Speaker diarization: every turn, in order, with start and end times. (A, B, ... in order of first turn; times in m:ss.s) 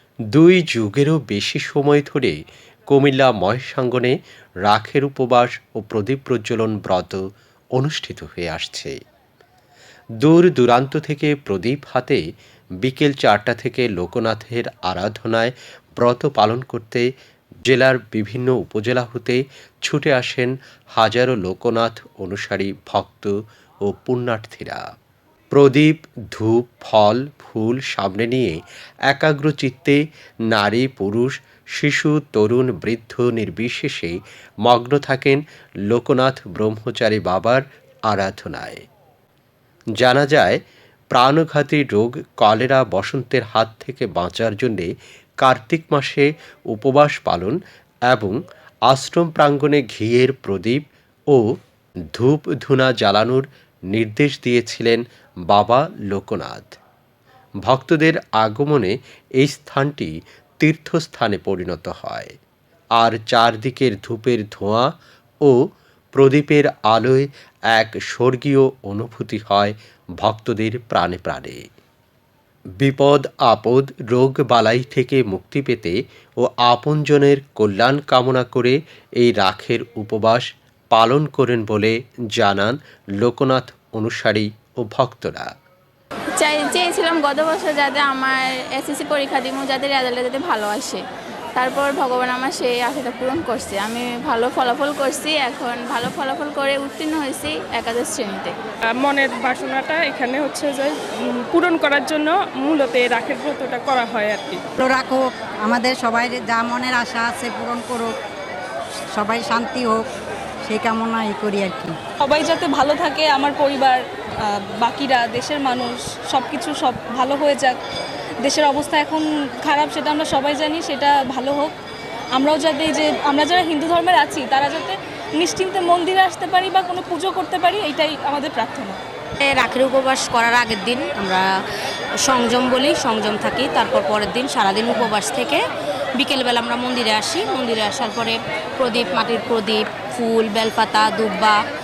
0:00.3-0:07.2 A
0:07.8-0:09.0 A
0:10.2-0:12.2 A
0:12.8-0:17.1 A
0:17.7-0:23.3 A
0:23.8-0:24.8 A
0:25.5-0:28.6 A
0:29.1-0:38.8 A
0:40.0-0:40.6 A
0:41.1-0:47.6 A
0:48.1-0:51.4 A
0:52.1-0:56.8 A
0:57.6-1:02.3 A
1:03.0-1:04.9 A
1:06.2-1:11.6 A
1:12.8-1:25.5 A
1:26.4-1:31.0 B
1:31.6-1:38.5 B
1:38.9-1:44.6 C
1:44.8-1:48.1 D
1:49.1-1:50.1 D
1:50.6-1:52.0 D
1:52.2-1:57.8 E
1:58.4-2:01.7 E
2:02.3-2:09.0 E
2:09.4-2:11.4 F
2:12.2-2:15.6 F
2:16.2-2:21.5 F